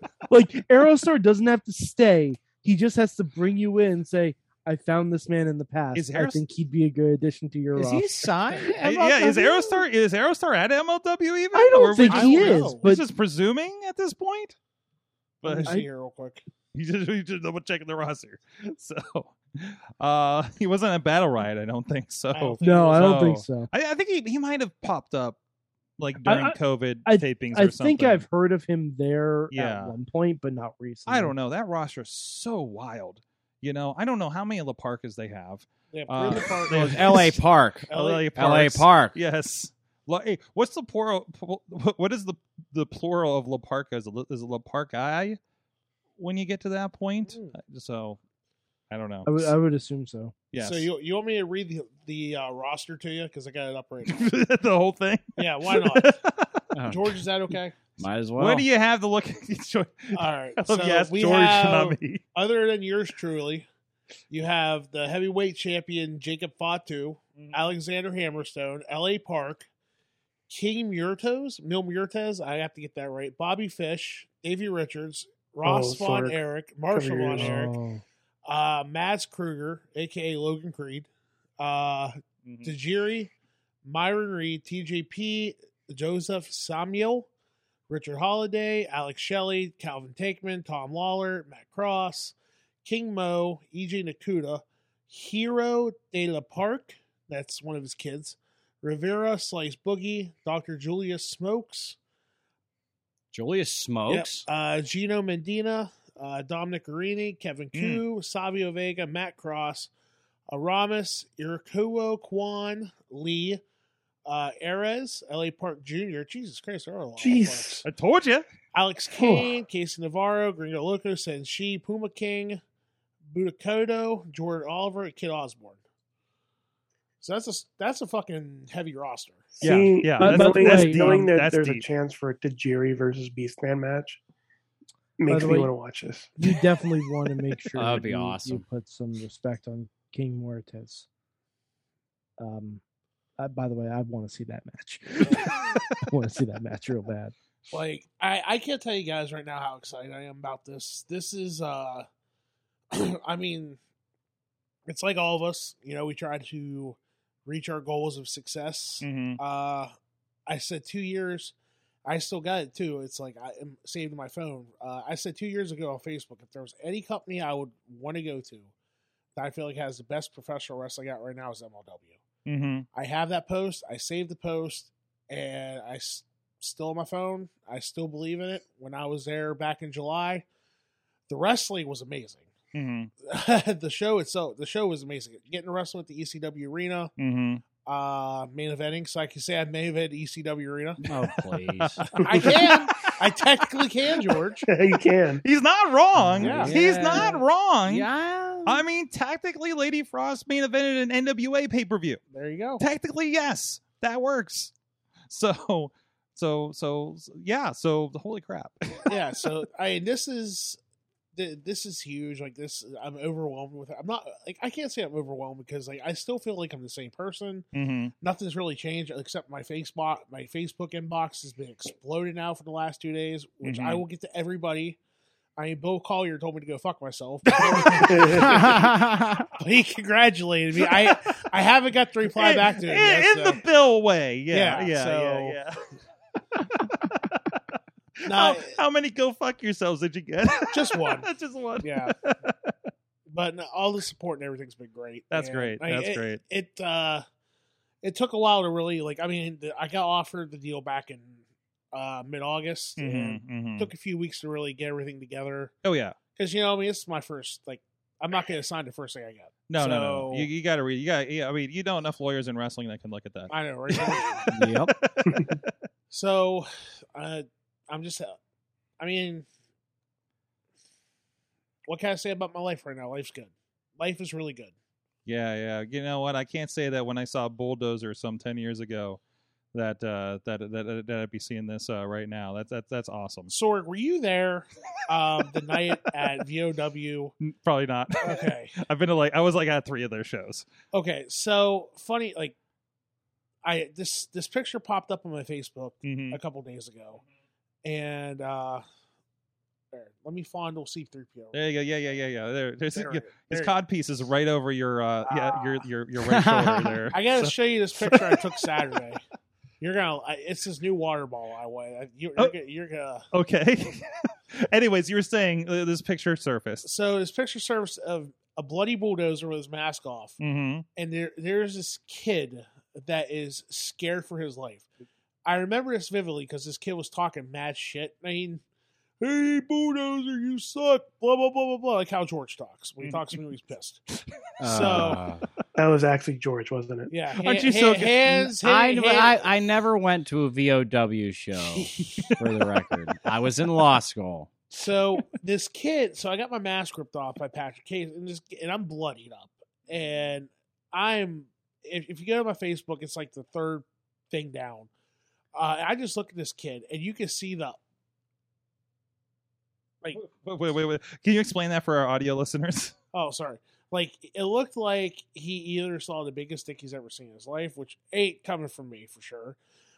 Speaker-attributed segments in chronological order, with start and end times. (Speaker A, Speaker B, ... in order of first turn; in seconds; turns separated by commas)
Speaker A: 0.3-9.6, Speaker B: 5.9-6.4, Speaker C: 7.7-9.5, Speaker B: 8.8-14.6, Speaker A: 11.5-13.0, Speaker D: 12.1-12.9, Speaker B: 15.4-15.7, Speaker D: 15.4-16.4, Speaker B: 16.7-25.4, Speaker D: 22.3-23.2, Speaker A: 22.6-23.7, Speaker B: 26.0-28.2, Speaker A: 26.2-31.3, Speaker B: 29.5-30.0, Speaker B: 31.1-45.4, Speaker D: 35.9-38.3, Speaker C: 36.7-39.2, Speaker B: 46.2-48.2, Speaker D: 47.3-47.5, Speaker B: 48.9-49.5, Speaker A: 49.2-50.4, Speaker B: 50.5-50.9, Speaker D: 50.6-54.2, Speaker B: 54.1-56.6, Speaker D: 55.4-56.2, Speaker C: 56.8-57.0, Speaker D: 56.9-57.8, Speaker C: 58.0-58.7, Speaker B: 58.4-62.2, Speaker D: 60.1-63.7, Speaker D: 64.3-69.7, Speaker B: 67.4-67.7, Speaker D: 70.5-77.7, Speaker E: 75.6-76.4, Speaker E: 76.9-77.7, Speaker A: 77.4-78.0, Speaker D: 78.5-83.3, Speaker B: 82.5-82.7, Speaker D: 83.8-87.3, Speaker D: 87.9-102.0, Speaker C: 103.3-104.5, Speaker D: 104.1-109.9, Speaker B: 107.7-108.0, Speaker D: 110.5-113.6, Speaker D: 114.2-117.8, Speaker E: 117.2-117.8, Speaker B: 117.8-118.5, Speaker D: 118.7-122.6, Speaker E: 119.2-119.5, Speaker D: 123.3-125.8, Speaker D: 127.2-129.6, Speaker E: 129.6-134.2, Speaker B: 129.6-131.9, Speaker A: 130.2-131.3, Speaker E: 135.2-136.4, Speaker A: 135.3-135.7, Speaker A: 136.4-141.1, Speaker C: 137.7-138.7, Speaker A: 142.4-142.8, Speaker A: 143.4-147.3, Speaker D: 147.7-152.1, Speaker D: 152.9-153.8, Speaker D: 154.9-159.9, Speaker B: 159.0-159.4, Speaker D: 160.5-168.7, Speaker D: 169.4-172.2, Speaker B: 172.5-172.9, Speaker D: 172.9-180.4, Speaker D: 181.3-182.5, Speaker B: 182.7-183.1, Speaker D: 183.2-187.1, Speaker B: 187.2-187.6, Speaker D: 187.8-191.0, Speaker C: 191.1-192.0, Speaker B: 191.8-192.8, Speaker D: 192.2-194.6, Speaker E: 192.3-192.5, Speaker E: 194.7-195.4, Speaker B: 195.4-198.1, Speaker C: 196.2-198.8, Speaker D: 196.4-197.4, Speaker B: 198.7-202.2, Speaker D: 202.3-202.8, Speaker B: 202.8-204.7, Speaker B: 205.3-209.1, Speaker D: 209.1-210.8, Speaker D: 211.3-217.7, Speaker B: 217.7-218.1, Speaker D: 218.2-225.0, Speaker B: 223.6-224.0, Speaker D: 225.6-228.7, Speaker B: 227.5-228.3, Speaker E: 227.9-228.8, Speaker C: 228.7-229.4, Speaker D: 229.6-233.6, Speaker B: 230.8-231.2, Speaker B: 232.3-235.8, Speaker D: 234.5-235.6, Speaker B: 236.8-237.6, Speaker B: 238.2-242.7, Speaker D: 238.3-238.8, Speaker D: 240.7-242.1, Speaker D: 243.3-247.2, Speaker B: 245.3-246.4, Speaker D: 248.0-255.8, Speaker B: 253.0-253.9, Speaker B: 255.8-256.2, Speaker D: 256.4-260.5, Speaker B: 259.7-265.2, Speaker D: 263.5-264.5, Speaker C: 264.5-264.9, Speaker E: 265.3-265.6, Speaker D: 266.1-268.4, Speaker D: 269.0-269.5, Speaker D: 271.9-274.7, Speaker B: 275.3-279.2, Speaker B: 279.7-283.5, Speaker D: 283.5-287.3, Speaker B: 287.4-290.7, Speaker D: 288.2-288.8, Speaker D: 290.9-292.6, Speaker D: 293.6-297.2, Speaker B: 296.0-296.4, Speaker D: 297.8-298.9, Speaker D: 299.9-301.6, Speaker B: 301.5-308.6, Speaker D: 302.9-303.8, Speaker D: 305.3-305.9, Speaker C: 306.2-307.1, Speaker D: 307.1-309.2, Speaker D: 309.8-313.3, Speaker B: 313.3-316.9, Speaker D: 316.8-320.4, Speaker B: 320.4-320.9, Speaker D: 320.9-324.9, Speaker D: 325.4-328.6, Speaker D: 329.2-334.0, Speaker B: 333.0-333.3, Speaker C: 334.6-335.4, Speaker D: 334.6-335.2, Speaker E: 335.8-337.1, Speaker D: 337.1-339.5, Speaker B: 337.4-338.5, Speaker C: 338.6-344.5, Speaker D: 341.6-342.3, Speaker D: 344.7-354.9, Speaker D: 355.6-357.8, Speaker B: 360.1-362.9, Speaker D: 363.1-369.6